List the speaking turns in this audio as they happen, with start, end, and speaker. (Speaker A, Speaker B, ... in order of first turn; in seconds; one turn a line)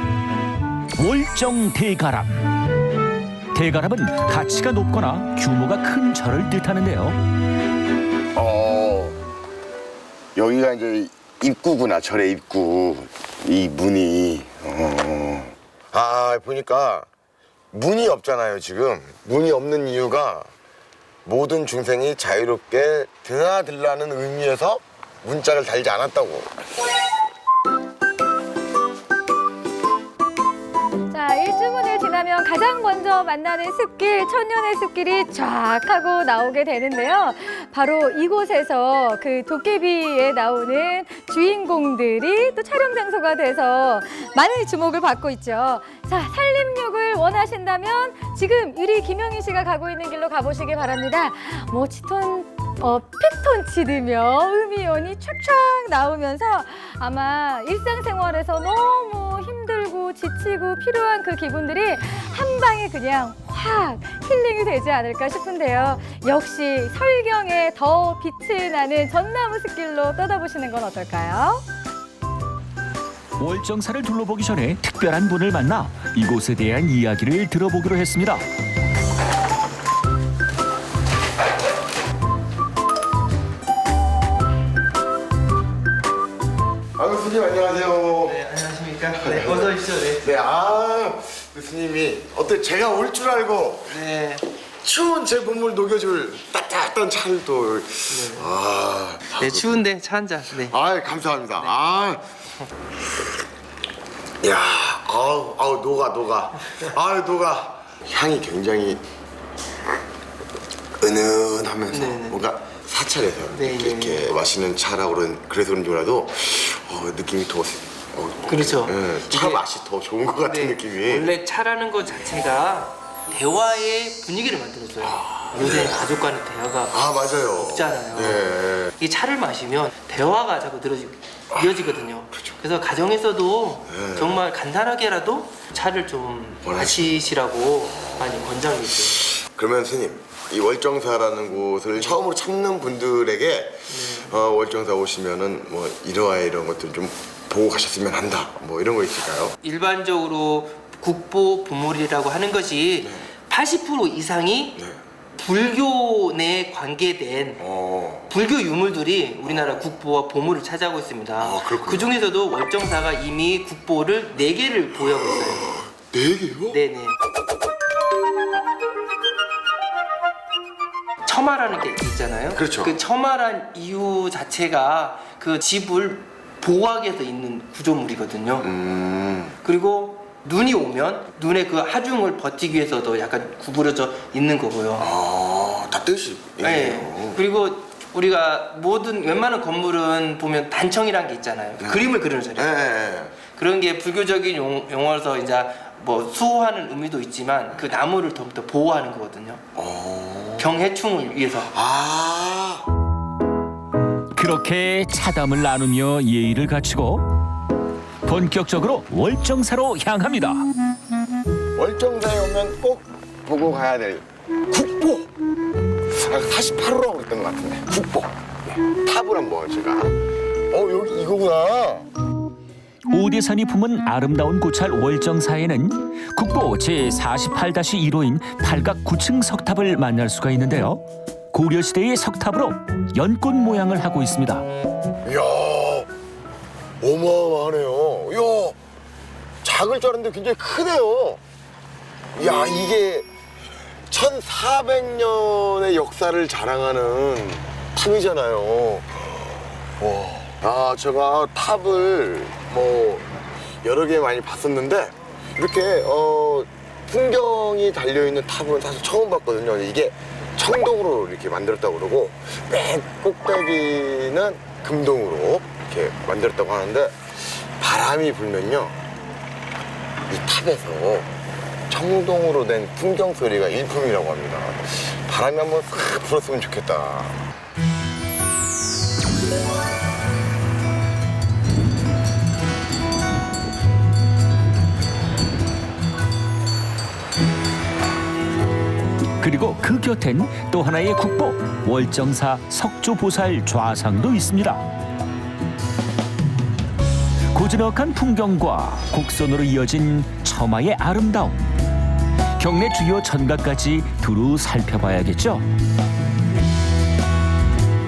Speaker A: 1.0-2.5
Speaker A: 3.5-7.2
Speaker B: 8.3-9.2
Speaker B: 10.3-17.1
Speaker B: 17.7-20.5
Speaker B: 21.2-26.5
Speaker C: 31.1-71.7
Speaker A: 73.4-78.5
Speaker B: 87.0-88.4
Speaker D: 88.2-90.3
Speaker B: 89.1-94.0
Speaker D: 93.9-94.4
Speaker B: 94.8-99.8
Speaker D: 98.1-98.5
Speaker D: 99.4-100.8
Speaker B: 100.6-102.2
Speaker B: 104.4-109.0
Speaker B: 111.0-121.3
Speaker D: 111.9-112.4
Speaker D: 113.5-114.2
Speaker D: 118.5-119.6
Speaker D: 120.4-128.5
Speaker B: 125.0-126.0
Speaker B: 126.9-128.9
Speaker D: 129.0-139.2
Speaker B: 133.9-134.4
Speaker B: 136.7-137.2
Speaker B: 139.4-149.6
Speaker D: 143.9-144.3
Speaker D: 149.6-154.8
Speaker B: 153.0-153.3
Speaker D: 155.4-157.7
Speaker B: 157.6-158.3
Speaker D: 158.3-165.7
Speaker B: 159.4-159.8
Speaker B: 161.4-162.1
Speaker B: 165.3-166.8
Speaker D: 166.7-167.2
Speaker D: 171.2-178.7
Speaker B: 172.5-173.0
Speaker B: 178.6-179.6
Speaker D: 179.6-185.1
Speaker B: 185.0-187.4
Speaker D: 186.6-192.8
Speaker B: 191.8-193.4
Speaker D: 193.5-199.6
Speaker B: 199.8-200.7
Speaker D: 200.6-201.7
Speaker B: 201.7-202.8
Speaker A: 204.3-207.2
Speaker A: 208.2-210.6
Speaker B: 211.8-215.3
Speaker B: 216.2-220.2
Speaker B: 220.7-222.1
Speaker A: 223.1-234.7
Speaker B: 235.2-236.1
Speaker B: 237.0-238.8
Speaker B: 239.6-241.4
Speaker B: 242.3-243.3
Speaker B: 244.1-249.1
Speaker B: 250.0-253.3
Speaker B: 253.8-268.9
Speaker B: 270.3-271.3
Speaker B: 271.9-277.4
Speaker A: 289.4-294.8
Speaker A: 297.5-301.7
Speaker A: 302.6-305.7